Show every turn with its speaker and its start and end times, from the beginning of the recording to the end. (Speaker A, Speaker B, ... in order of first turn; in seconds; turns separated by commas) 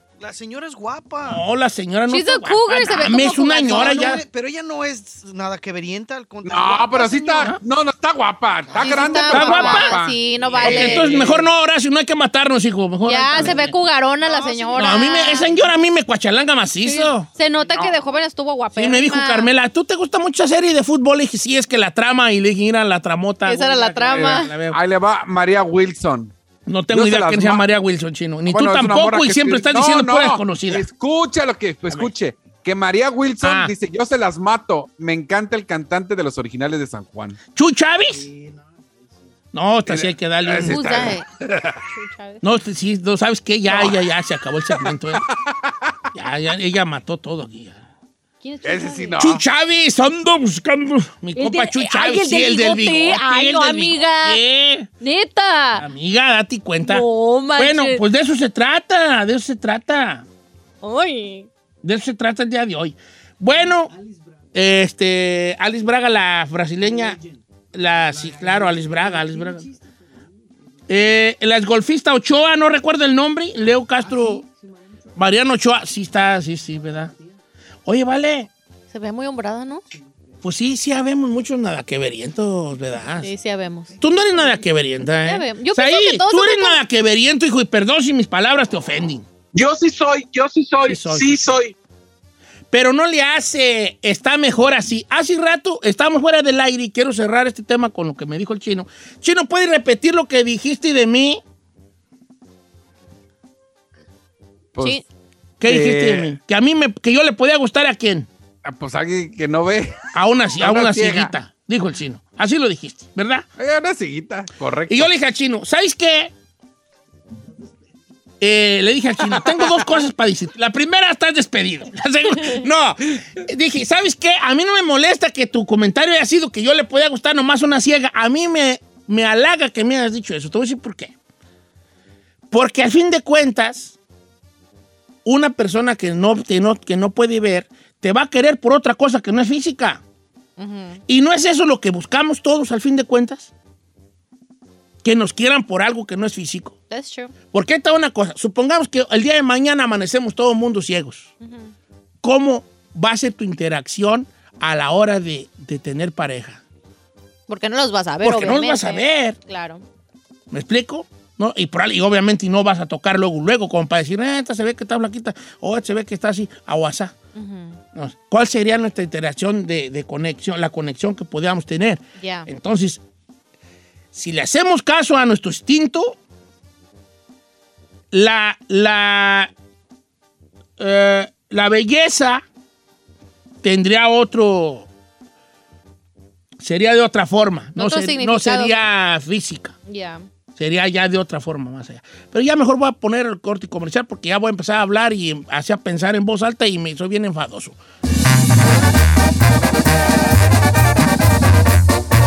Speaker A: 0.2-1.4, Speaker B: 1.2-4.2, Speaker C: 2.1-4.0, Speaker A: 3.6-7.5, Speaker D: 6.4-11.4, Speaker C: 8.8-11.3, Speaker B: 9.3-10.0, Speaker B: 10.6-13.7, Speaker C: 13.1-15.7, Speaker B: 14.7-17.3, Speaker C: 16.8-19.5, Speaker D: 17.7-17.9, Speaker B: 18.8-24.8, Speaker C: 23.4-24.5, Speaker D: 24.1-26.3, Speaker B: 26.7-30.9, Speaker D: 26.9-27.6, Speaker D: 28.5-37.4, Speaker B: 33.4-33.7, Speaker B: 37.5-38.3, Speaker B: 39.5-41.2, Speaker D: 39.9-41.8, Speaker C: 40.6-41.2, Speaker C: 41.9-42.4, Speaker B: 42.4-45.2, Speaker D: 43.7-44.0, Speaker D: 44.8-45.7, Speaker B: 46.1-47.8, Speaker C: 48.4-49.1, Speaker D: 48.6-49.4, Speaker B: 49.2-54.9, Speaker C: 51.4-54.4, Speaker C: 55.0-55.8, Speaker B: 55.8-60.2, Speaker C: 56.8-58.0, Speaker C: 60.8-61.5, Speaker B: 61.8-64.0, Speaker B: 64.5-67.2, Speaker B: 67.7-69.7, Speaker B: 70.9-74.5, Speaker B: 75.1-77.1, Speaker B: 77.8-78.5, Speaker C: 78.9-79.8, Speaker B: 80.4-83.3, Speaker C: 83.2-83.9, Speaker B: 84.0-89.2, Speaker C: 85.2-86.8, Speaker E: 89.5-91.8, Speaker B: 90.8-91.4, Speaker B: 92.7-101.4, Speaker D: 104.7-105.0, Speaker B: 105.6-108.3, Speaker D: 105.6-106.3, Speaker D: 108.6-110.0, Speaker B: 110.1-113.5, Speaker D: 110.6-111.3, Speaker D: 113.6-115.1, Speaker B: 114.9-116.3, Speaker B: 118.4-131.1, Speaker D: 119.3-119.8, Speaker B: 132.5-133.9, Speaker B: 135.2-140.0, Speaker C: 140.6-141.0, Speaker B: 141.1-143.5, Speaker B: 145.0-146.7, Speaker C: 146.9-147.3, Speaker B: 147.5-151.3, Speaker C: 151.4-151.7, Speaker B: 152.2-156.6, Speaker C: 157.5-159.8, Speaker B: 158.2-159.4, Speaker B: 160.5-167.1, Speaker C: 167.3-167.8, Speaker B: 167.9-173.0, Speaker C: 172.2-172.5, Speaker B: 174.1-176.2, Speaker B: 178.1-179.5, Speaker B: 180.8-182.4, Speaker B: 183.6-184.9, Speaker B: 186.6-189.8, Speaker C: 187.8-188.9, Speaker C: 189.9-190.2, Speaker B: 190.6-197.8